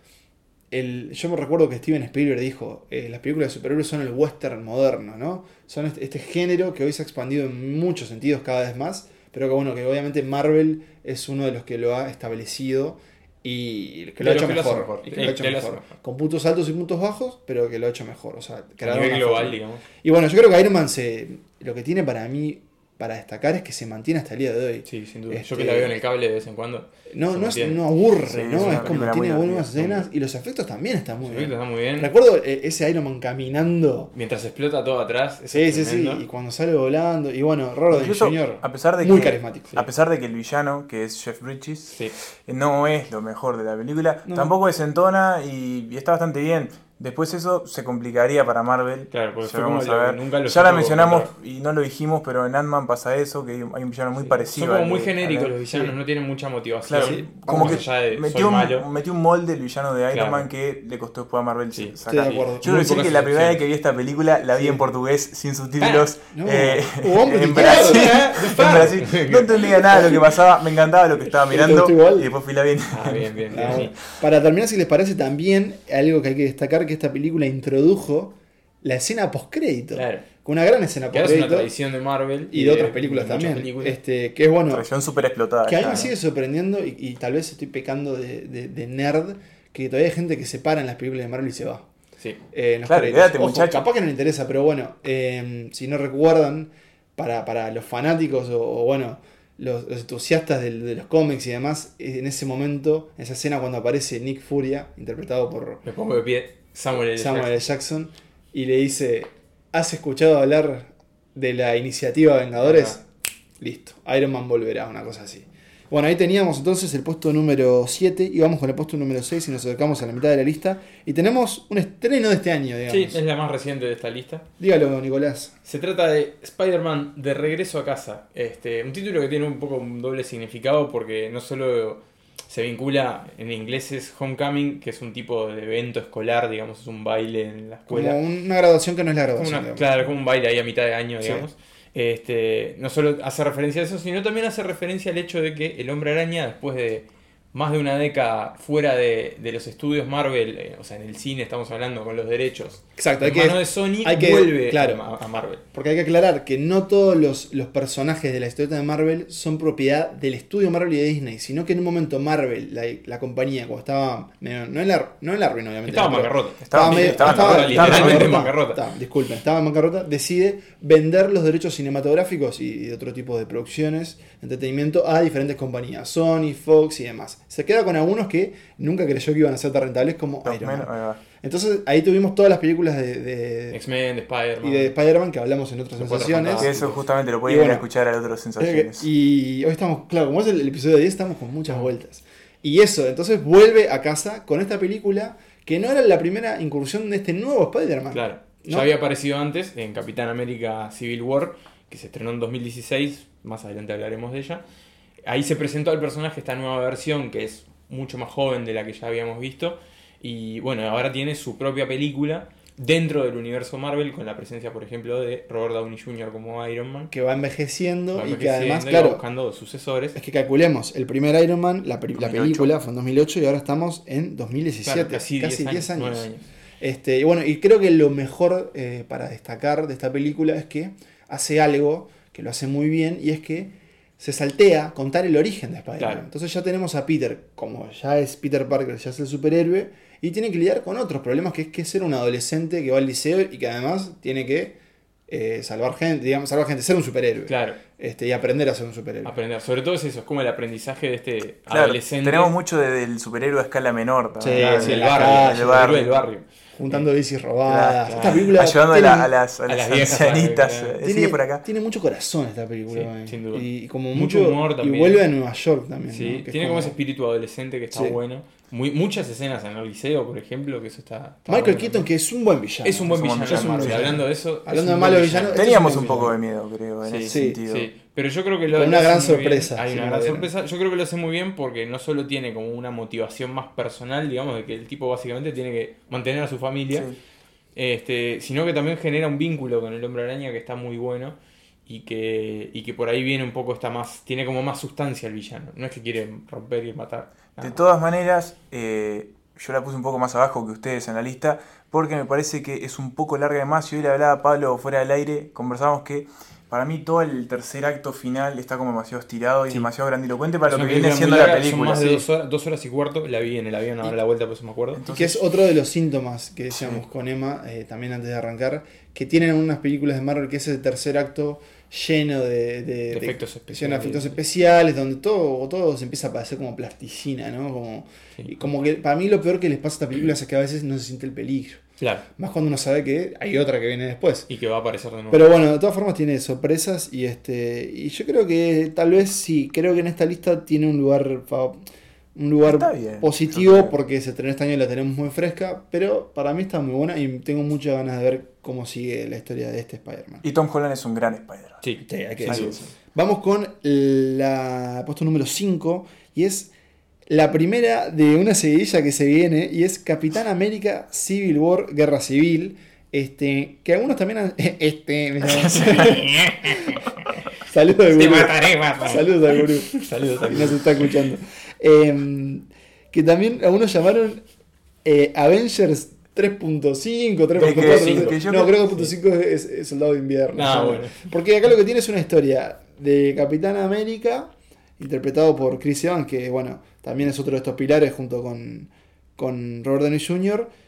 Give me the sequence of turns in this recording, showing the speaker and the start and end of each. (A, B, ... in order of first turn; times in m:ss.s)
0:00.7-0:26.0 A
0:14.2-0:15.9 B
0:18.8-0:19.8 B
0:24.8-0:27.8 B
0:27.1-0:34.1 A
0:28.3-0:30.1 C
0:28.5-0:29.0 B
0:31.2-0:32.1 B
0:34.1-0:36.2 B
0:35.5-0:39.7 A
0:37.9-0:55.5 C
0:41.9-0:42.2 B
0:44.3-0:44.5 A
0:49.1-0:51.3 B
0:54.2-0:58.9 B
0:55.6-0:55.9 A
0:56.8-1:13.8 C
0:57.0-0:57.9 A
1:00.1-1:00.5 B
1:01.7-1:03.6 B
1:02.1-1:02.9 A
1:05.8-1:06.1 B
1:06.3-1:08.9 A
1:07.5-1:10.0 B
1:09.9-1:10.2 A
1:11.3-1:12.3 A
1:12.9-1:14.0 B
1:13.5-1:21.7 A
1:19.9-1:20.3 B
1:21.1-1:24.0 B
1:22.5-1:24.9 A
1:24.7-1:26.1 C
1:25.6-1:31.9 A
1:32.5-1:45.8 A
1:32.9-1:33.8 C
1:45.8-1:47.6 B
1:47.1-1:53.0 A
1:52.6-1:53.0 B
1:53.6-2:03.2 A
2:02.9-2:04.5 B
2:04.6-2:05.5 A
2:05.6-2:18.2 B
2:17.9-2:20.0 A
2:19.4-2:35.6 B
2:33.0-2:35.0 A
2:35.7-3:03.8 A
2:45.9-2:48.8 B
2:46.6-2:48.4 C
3:00.4-3:01.2 C
3:03.7-3:05.0 B
3:04.6-3:06.8 A
3:06.0-3:07.0 B
3:06.6-3:09.1 C
3:07.5-3:07.9 A
3:08.6-3:18.9 A
3:18.1-3:24.6 B
3:25.2-3:37.1 B
3:37.1-3:39.2 A
3:38.2-3:40.2 B
3:40.2-3:46.3 A
3:42.2-3:42.7 C
3:44.8-3:46.4 B
3:46.8-4:04.8 A
3:56.0-3:56.3 B
4:05.3-4:09.4 A
4:07.5-4:07.8 B
4:09.2-4:12.6 B
4:11.7-4:16.2 C
4:14.4-4:16.0 A
4:14.6-4:17.1 B
4:16.8-4:19.3 A
4:17.6-4:21.6 C
4:18.1-4:18.5 B
4:19.7-4:21.0 B
4:21.0-4:27.0 A
4:22.9-4:25.2 B
4:26.1-4:32.1 B
4:27.9-4:28.2 A
4:31.5-4:36.4 A
4:32.8-4:36.3 B
4:33.1-4:34.2 C
4:35.5-4:37.9 C
4:37.0-4:47.1 B
4:37.3-4:37.6 A
4:38.7-4:40.5 A
4:47.8-4:57.8 B
4:57.6-5:12.2 C
5:10.7-5:15.0 B
5:14.9-5:15.4 C
5:15.1-5:31.8 A
5:16.7-5:17.0 C
5:23.1-5:24.4 B
5:32.0-5:32.3 B
5:32.4-5:34.5 A
5:34.5-5:35.5 B
5:35.3-5:41.8 A
5:42.4-5:50.4 A
5:42.6-5:44.0 C
5:50.4-5:51.8 C
5:51.8-5:52.9 B
5:52.0-5:56.7 A
5:52.4-5:52.8 C
5:57.3-6:07.0 A
6:05.6-6:07.0 B
6:07.6-6:14.4 A
6:08.1-6:11.1 B
6:15.0-6:30.7 A
6:17.6-6:19.1 B
6:17.6-6:18.8 C
6:20.5-6:21.2 B